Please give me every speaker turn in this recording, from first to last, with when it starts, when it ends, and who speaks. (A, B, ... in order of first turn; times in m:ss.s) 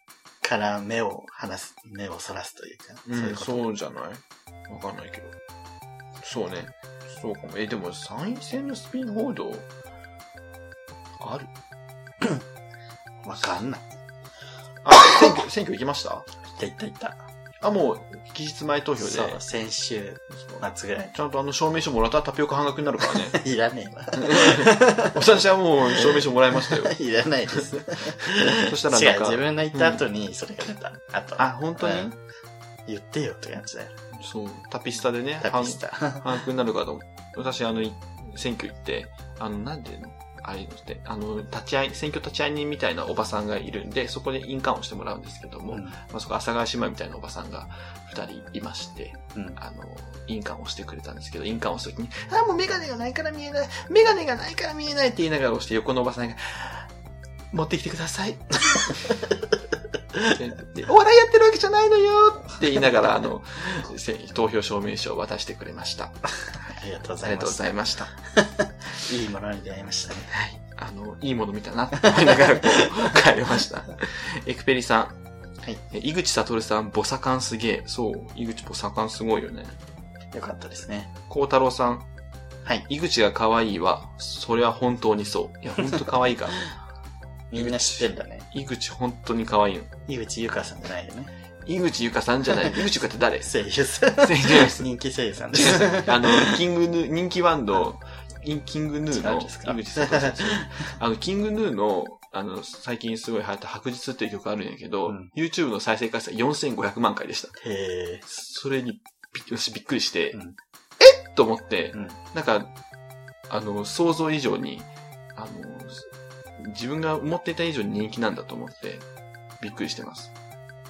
0:00.4-0:03.7 A
0:03.1-0:05.4 B
0:06.2-0:09.7 B
0:11.2-0:11.5 B
0:13.2-0:13.9 A
0:14.8-0:16.3 B
0:16.5-0:17.2 A
0:17.6-0:19.4 B
0:19.0-0:21.1 A
0:20.3-0:23.4 B
0:23.3-0:25.2 A
0:24.2-0:27.0 B
0:25.9-0:32.2 A
0:28.6-0:30.0 B
0:31.4-0:32.2 B
0:32.9-0:33.9 A
0:34.1-0:56.9 B
0:35.4-0:36.2 A
0:57.5-0:59.0 B
1:00.3-1:06.2 B
1:06.7-1:07.8 A
1:07.2-1:08.1 B
1:08.3-1:10.3 A
1:10.3-1:15.2 B
1:12.5-1:12.8 A
1:15.9-1:19.8 B
1:20.3-1:21.1 A
1:21.3-1:22.1 B
1:22.9-1:26.7 B
1:27.5-1:28.5 A
1:27.6-1:29.9 B
1:30.1-1:31.3 A
1:31.7-1:33.5 B
1:33.4-1:36.6 A
1:34.2-1:34.9 B
1:35.5-1:47.5 B
1:39.1-1:40.9 A
1:47.6-1:48.3 A
1:48.3-1:50.4 B
1:51.0-1:52.7 B
1:53.5-1:59.1 B
1:59.6-2:00.3 B